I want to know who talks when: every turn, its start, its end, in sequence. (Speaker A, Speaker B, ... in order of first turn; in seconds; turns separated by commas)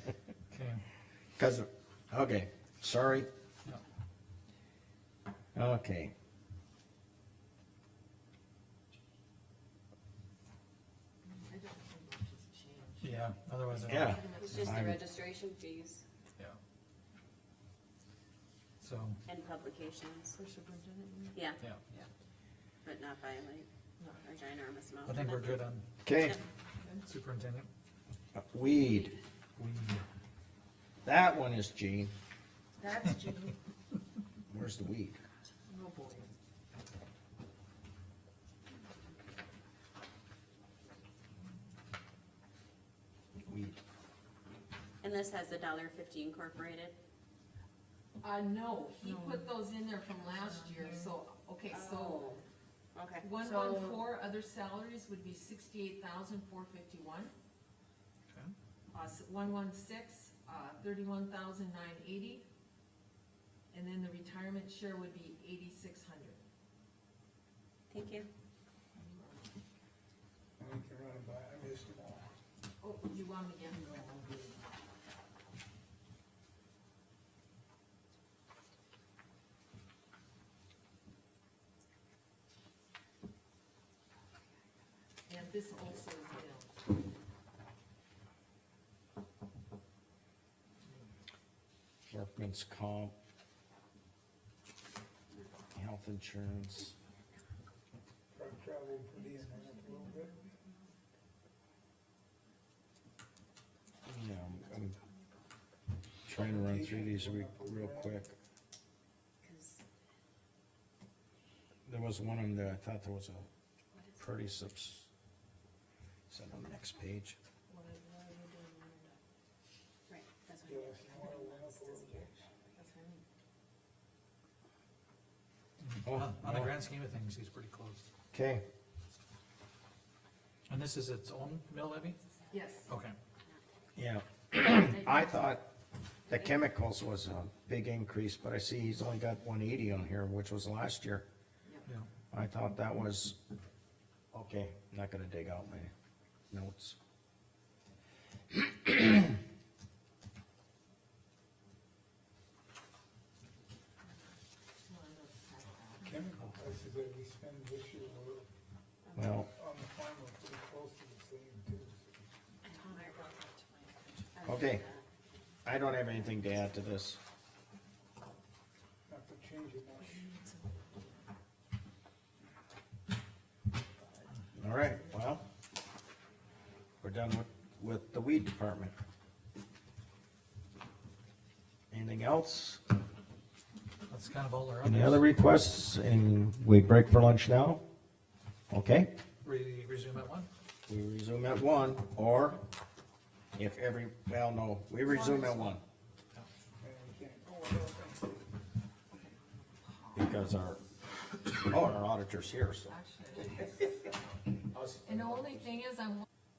Speaker A: 0.5-0.8, Speaker B: 1.4-3.3, Speaker B: 5.5-6.1, Speaker C: 11.4-13.2, Speaker A: 13.0-14.7, Speaker C: 13.7-14.6, Speaker B: 13.9-15.0, Speaker D: 14.3-16.0, Speaker A: 18.8-19.2, Speaker D: 19.3-20.4, Speaker C: 20.4-21.4, Speaker D: 21.3-22.1, Speaker D: 22.8-25.6, Speaker A: 25.0-25.9, Speaker B: 26.0-26.4, Speaker A: 27.0-27.7, Speaker B: 28.3-29.1, Speaker A: 29.6-30.0, Speaker B: 31.0-32.1, Speaker C: 32.8-33.5, Speaker B: 34.5-35.2, Speaker C: 35.7-36.3, Speaker B: 43.5-43.8, Speaker D: 45.0-47.0, Speaker C: 48.2-52.4, Speaker D: 51.7-52.4, Speaker D: 52.9-54.0, Speaker C: 53.2-57.3, Speaker C: 58.9-62.5, Speaker C: 63.7-66.4, Speaker D: 67.9-68.3, Speaker C: 69.0-69.5, Speaker E: 70.6-72.3, Speaker C: 72.8-73.9, Speaker E: 73.8-74.6, Speaker C: 85.3-86.9, Speaker B: 92.1-93.1, Speaker B: 95.7-97.0, Speaker E: 98.3-100.4, Speaker D: 99.2-100.9, Speaker B: 104.0-105.0, Speaker D: 104.5-105.3, Speaker B: 106.2-108.3, Speaker E: 106.3-108.2, Speaker D: 109.4-109.8, Speaker B: 111.9-113.5, Speaker D: 113.9-114.2, Speaker B: 114.2-115.1, Speaker B: 116.3-117.4, Speaker C: 117.7-119.2, Speaker D: 120.1-122.8, Speaker E: 120.7-122.4, Speaker C: 122.8-123.2, Speaker A: 125.8-128.0, Speaker B: 126.1-126.7, Speaker B: 128.3-128.6, Speaker A: 130.7-132.2, Speaker D: 132.3-132.8, Speaker C: 132.5-132.9, Speaker A: 132.9-133.2, Speaker B: 134.0-135.6, Speaker C: 134.8-135.5, Speaker B: 136.3-141.2, Speaker C: 141.6-141.9, Speaker B: 142.3-143.4, Speaker B: 144.3-145.9, Speaker B: 146.5-147.0, Speaker B: 148.5-149.3, Speaker C: 154.8-156.2, Speaker E: 156.1-158.5, Speaker B: 159.2-159.5, Speaker E: 159.4-162.2, Speaker D: 162.7-163.2, Speaker C: 162.9-163.8, Speaker D: 164.3-165.0, Speaker B: 164.4-164.8, Speaker B: 165.7-167.2, Speaker E: 169.1-170.3, Speaker C: 170.0-171.3, Speaker C: 174.0-174.3, Speaker B: 174.6-175.4, Speaker B: 177.0-178.9, Speaker B: 181.9-182.8, Speaker A: 184.1-185.4, Speaker B: 184.8-187.8, Speaker B: 188.7-189.1, Speaker A: 189.4-190.5, Speaker B: 190.9-192.6, Speaker B: 193.6-195.8, Speaker C: 195.1-195.7, Speaker E: 196.8-198.5, Speaker C: 199.1-200.6, Speaker B: 200.2-200.8, Speaker B: 201.5-203.0, Speaker C: 202.9-204.1, Speaker B: 204.6-205.8, Speaker C: 205.1-206.2